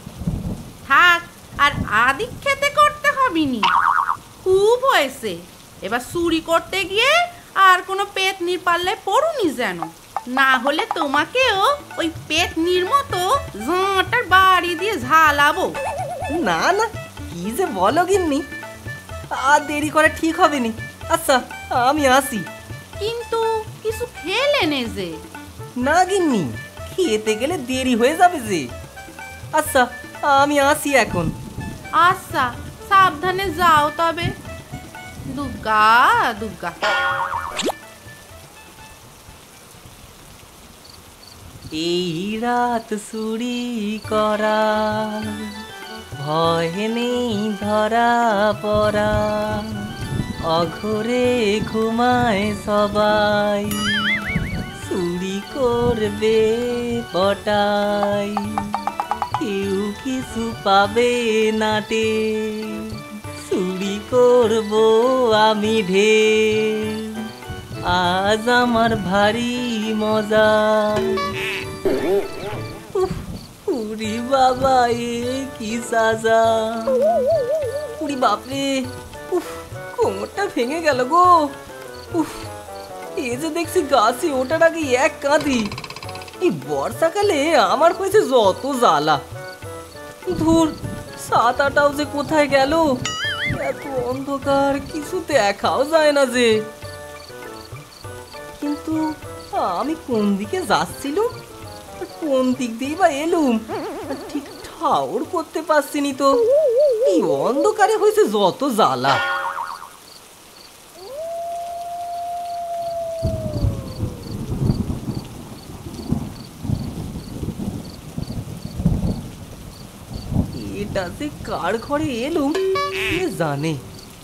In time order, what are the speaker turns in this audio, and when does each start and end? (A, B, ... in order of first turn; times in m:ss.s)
0:00.9-0:03.7 A
0:04.4-0:15.8 A
0:16.3-0:18.4 B
0:19.4-0:22.5 B
0:23.0-0:25.1 A
0:25.8-0:28.6 B
0:29.6-0:31.3 B
0:32.0-0:34.3 A
0:35.3-0:36.8 A
0:41.8-0:45.3 B
0:46.2-0:49.8 B
0:50.5-0:54.1 B
0:54.8-0:58.7 B
0:59.4-1:07.2 B
1:07.9-1:11.2 B
1:13.0-1:17.1 B
1:18.0-1:21.5 B
1:22.1-1:22.5 B
1:23.2-1:25.7 B
1:26.4-1:29.2 B
1:30.3-1:32.9 B
1:33.5-1:36.5 B
1:38.6-1:41.3 B
1:42.0-1:46.4 B
1:47.0-1:49.2 B
2:00.6-2:02.5 B
2:03.1-2:03.8 B